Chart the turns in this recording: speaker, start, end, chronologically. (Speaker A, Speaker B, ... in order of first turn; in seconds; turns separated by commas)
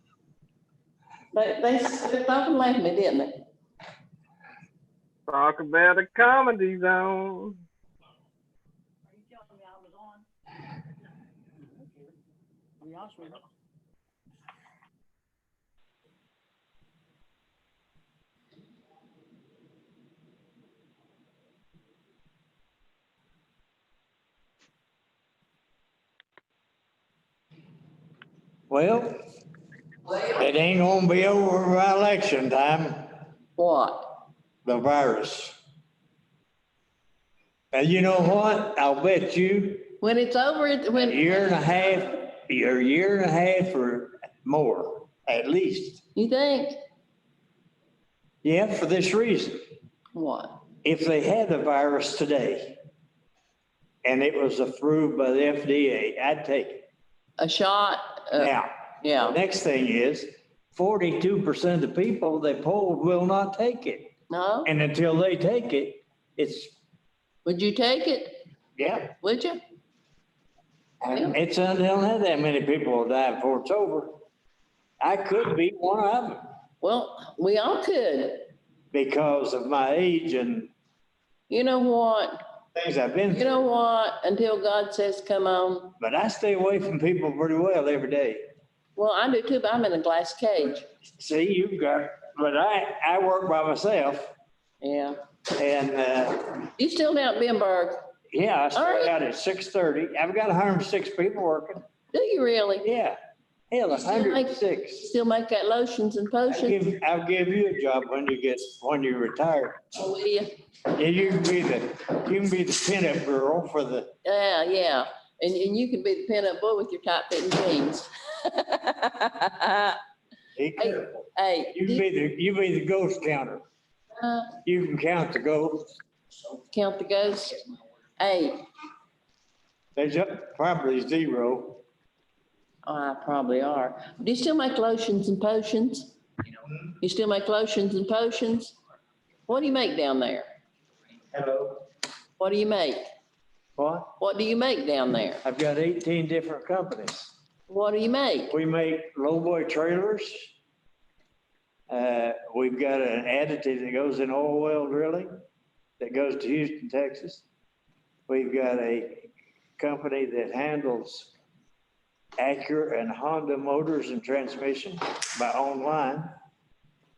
Speaker A: 1.3-3.4, Speaker B: 5.3-7.6, Speaker C: 9.1-10.3, Speaker C: 11.8-12.1, Speaker C: 12.8-13.4, Speaker D: 28.7-29.2, Speaker D: 30.2-33.1, Speaker A: 33.6-34.2, Speaker D: 34.6-35.6, Speaker D: 37.7-40.0, Speaker A: 40.0-41.5, Speaker D: 41.0-46.0, Speaker A: 46.2-46.8, Speaker D: 48.4-49.6, Speaker A: 50.1-50.6, Speaker D: 50.8-52.8, Speaker D: 54.0-56.9, Speaker A: 57.4-59.4, Speaker D: 58.4-64.1, Speaker A: 64.3-64.7, Speaker D: 64.6-66.8, Speaker A: 67.4-68.4, Speaker D: 68.8-69.1, Speaker A: 69.2-69.6, Speaker D: 71.0-74.2, Speaker D: 75.0-76.4, Speaker A: 76.8-78.5, Speaker D: 78.9-80.7, Speaker A: 81.5-82.3, Speaker D: 82.8-83.5, Speaker A: 83.3-86.0, Speaker D: 86.0-88.4, Speaker A: 89.0-90.8, Speaker D: 91.1-94.3, Speaker A: 94.8-95.2, Speaker D: 95.5-96.6, Speaker A: 96.8-98.1, Speaker D: 98.3-101.8, Speaker A: 98.7-99.1, Speaker A: 102.1-102.9, Speaker D: 102.8-103.2, Speaker D: 103.7-105.0, Speaker A: 103.9-106.8, Speaker D: 106.5-109.8, Speaker A: 109.9-110.5, Speaker D: 110.9-114.1, Speaker A: 114.2-120.0, Speaker D: 120.5-123.6, Speaker A: 120.8-122.0, Speaker A: 124.2-124.5, Speaker D: 124.6-126.0, Speaker A: 126.6-127.6, Speaker A: 128.2-128.6, Speaker D: 129.9-131.8, Speaker A: 132.8-136.2, Speaker A: 137.0-138.8, Speaker A: 139.5-140.5, Speaker D: 141.3-141.8, Speaker A: 142.4-143.0, Speaker D: 143.8-144.1, Speaker A: 144.2-145.4, Speaker D: 145.4-147.3, Speaker A: 147.7-148.5, Speaker D: 148.5-150.5, Speaker D: 151.9-155.4, Speaker D: 156.0-157.4, Speaker D: 158.3-161.3, Speaker D: 162.4-166.3